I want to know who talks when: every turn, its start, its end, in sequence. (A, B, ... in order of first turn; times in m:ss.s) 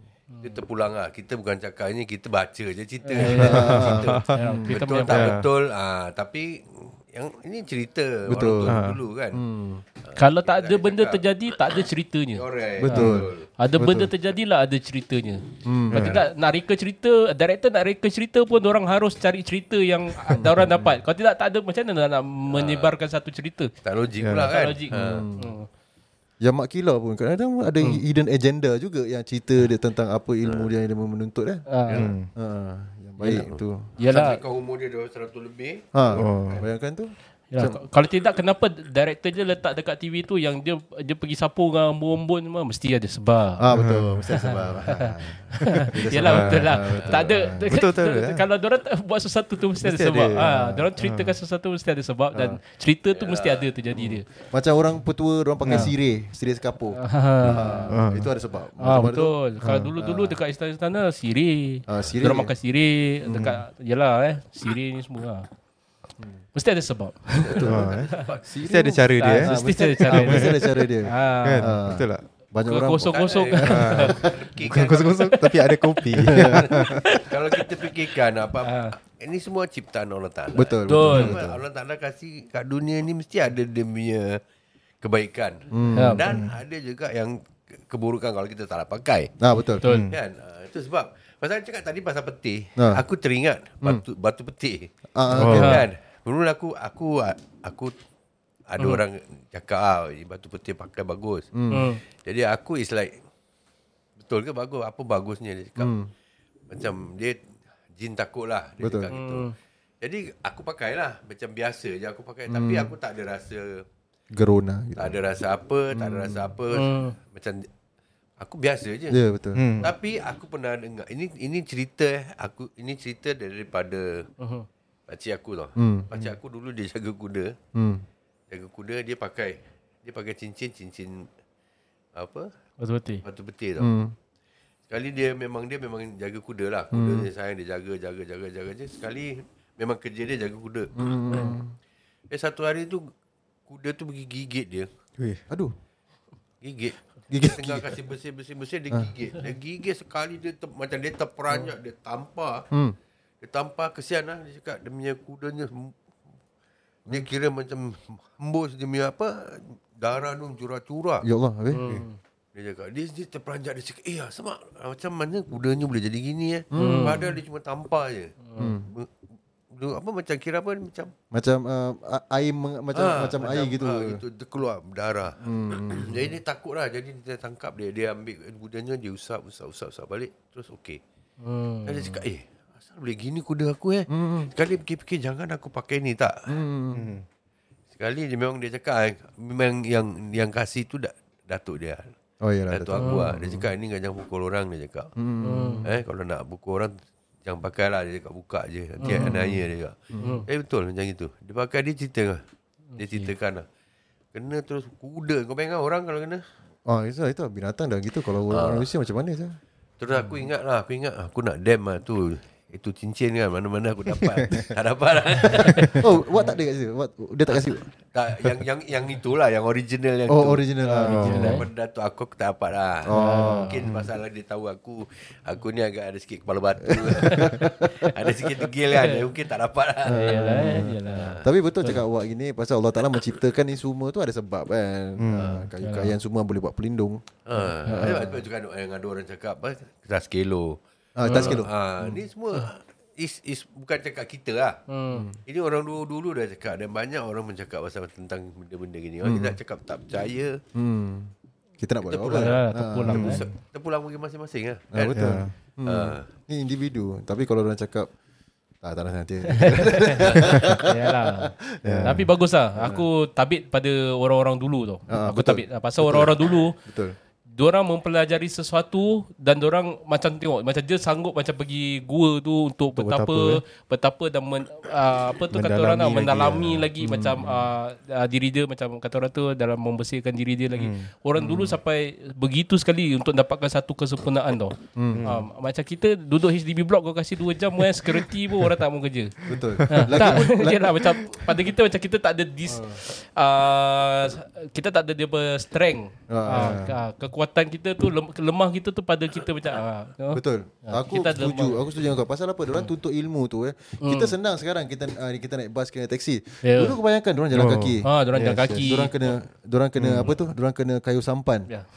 0:00.4-0:09.4 A
0:03.1-0:03.8 B
0:03.2-0:04.8 C
0:03.4-0:04.3 D
0:04.3-0:05.4 B
0:05.1-0:05.5 D
0:08.3-0:08.8 C
0:08.7-0:09.0 D
0:09.3-0:09.8 C
0:10.0-0:11.2 A
0:10.2-0:23.7 B
0:12.4-0:13.5 A
0:12.8-0:14.1 C
0:15.6-0:16.0 C
0:15.9-0:16.3 D
0:20.3-0:21.0 C
0:22.5-0:22.9 A
0:23.8-0:25.2 A
0:24.2-0:24.5 D
0:24.4-0:25.7 B
0:24.9-0:25.6 C
0:26.4-0:31.7 C
0:30.4-0:30.7 A
0:31.7-0:32.0 B
0:32.0-0:32.3 D
0:32.4-0:33.9 C
0:33.3-0:36.6 A
0:34.0-0:34.4 B
0:35.9-0:37.8 C
0:36.2-0:36.6 D
0:37.5-0:43.6 B
0:43.6-0:47.7 C
0:43.8-0:44.2 D
0:44.4-0:54.3 B
0:46.2-0:46.7 D
0:47.0-0:47.2 A
0:47.7-0:48.4 D
0:49.8-0:51.4 D
0:50.4-0:50.9 C
0:52.3-0:52.6 C
0:53.1-0:53.7 A
0:53.9-0:59.4 C
0:55.6-0:55.9 D
0:56.9-0:58.0 B
0:57.9-0:58.3 D
0:58.8-1:05.5 B
0:59.6-0:59.9 D
1:00.0-1:00.4 C
1:01.9-1:02.6 C
1:03.3-1:03.6 D
1:06.6-1:08.2 B
1:07.4-1:08.5 A
1:07.6-1:10.6 D
1:08.4-1:14.4 C
1:09.2-1:11.7 B
1:11.4-1:12.3 D
1:12.6-1:14.2 B
1:13.1-1:15.2 A
1:13.6-1:17.0 D
1:15.3-1:15.9 B
1:16.1-1:16.8 C
1:16.8-1:24.4 A
1:18.6-1:18.9 B
1:20.5-1:21.6 C
1:20.9-1:21.4 B
1:25.0-1:29.3 A
1:25.7-1:26.4 C
1:25.9-1:26.3 B
1:26.3-1:26.6 D
1:29.4-1:29.9 C
1:29.8-1:30.1 B
1:29.8-1:30.2 D
1:30.1-1:37.9 A
1:32.8-1:33.0 C
1:35.2-1:35.9 C
1:35.3-1:35.8 D
1:35.5-1:35.8 B
1:38.7-1:41.5 A
1:41.5-1:42.0 C
1:41.7-1:42.0 B
1:42.2-1:43.1 A
1:44.2-1:45.9 A
1:45.8-1:46.1 C
1:46.7-1:47.4 A
1:47.9-1:53.8 A
1:48.8-1:49.1 C
1:49.1-1:49.5 B
1:52.5-1:52.9 C
1:54.3-1:55.2 C
1:55.0-1:57.7 A
1:55.9-1:56.5 C
1:56.7-1:57.2 B
1:58.4-1:59.2 A
1:59.1-1:59.9 C
1:59.6-1:59.9 D
1:59.8-2:04.3 A
2:04.4-2:04.7 B
2:05.1-2:07.5 A
2:05.8-2:06.4 C
2:07.8-2:08.0 C
2:08.5-2:11.3 A
2:12.2-2:12.5 A
2:12.8-2:13.2 B
2:13.2-2:13.9 A
2:13.8-2:14.1 C
2:14.9-2:21.6 A
2:16.9-2:17.3 C
2:21.0-2:21.7 C
2:22.3-2:23.0 A
2:23.7-2:24.9 A
2:25.2-2:25.4 D
2:26.6-2:32.7 A
2:27.3-2:28.0 C
2:32.7-2:33.0 C
2:33.4-2:36.0 A
2:37.1-2:41.3 A
2:41.2-2:41.8 C
2:41.7-2:42.2 B
2:42.6-2:48.4 A
2:46.7-2:47.3 C
2:46.8-2:47.2 B
2:48.4-2:48.7 B
2:48.6-2:48.9 C
2:49.7-2:51.1 A
2:51.3-2:54.2 C
2:52.9-3:01.0 A
2:55.4-2:56.4 C
3:01.4-3:02.0 B
3:01.9-3:06.3 A
3:04.1-3:04.5 C
3:06.5-3:07.1 C
3:06.9-3:07.2 D
3:08.0-3:12.1 A
3:12.4-3:13.7 C
3:12.7-3:15.1 A
3:15.2-3:15.9 C
3:15.4-3:15.8 B
3:15.9-3:16.9 A
3:17.4-3:20.0 A
3:19.0-3:19.6 C
3:20.1-3:20.4 C
3:20.2-3:20.5 B
3:20.5-3:22.4 A
3:22.9-3:23.3 B
3:23.0-3:23.6 A
3:24.3-3:26.4 A
3:26.9-3:29.6 C
3:28.5-3:28.9 A
3:30.0-3:36.0 A
3:35.5-3:36.0 D
3:35.6-3:37.9 C
3:38.1-3:40.7 A
3:40.3-3:41.6 C
3:40.8-3:41.7 B
3:41.0-3:41.6 D
3:41.3-3:51.4 A
3:43.1-3:43.8 C
3:43.1-3:43.7 B
3:46.9-3:48.3 C
3:50.0-3:57.2 C
3:50.1-3:52.0 B
3:55.2-3:55.7 D
3:55.8-3:56.2 B
3:57.5-4:04.8 A
3:57.9-3:58.2 B
3:57.9-3:58.4 C
4:01.2-4:02.2 C
4:01.3-4:01.6 B
4:04.9-4:05.3 B
4:05.1-4:05.4 C
4:05.5-4:10.6 A
4:09.2-4:09.6 C
4:10.7-4:13.4 C
4:12.0-4:12.6 A
4:12.3-4:13.4 B
4:13.1-4:13.5 D
4:13.1-4:15.3 A
4:14.9-4:18.1 C
4:15.1-4:15.5 D
4:15.8-4:16.3 A
4:18.8-4:23.1 C
4:19.5-4:21.5 B
4:21.8-4:22.2 D
4:22.0-4:26.8 B
4:25.1-4:27.2 C
4:27.6-4:49.4 B
4:33.0-4:33.6 D
4:35.5-4:36.9 D
4:37.0-4:37.6 C
4:40.7-4:41.1 D
4:41.4-4:41.8 C
4:45.0-4:45.3 C
4:45.1-4:45.5 D
4:49.5-4:51.0 C
4:49.9-5:01.8 B
4:50.0-4:50.4 D
4:52.7-4:53.0 C
4:56.3-4:56.9 C
4:56.5-4:57.0 D
5:00.3-5:11.7 C
5:04.0-5:04.3 B
5:06.6-5:07.0 B
5:07.5-5:08.8 D
5:08.0-5:09.3 B
5:10.0-5:10.3 D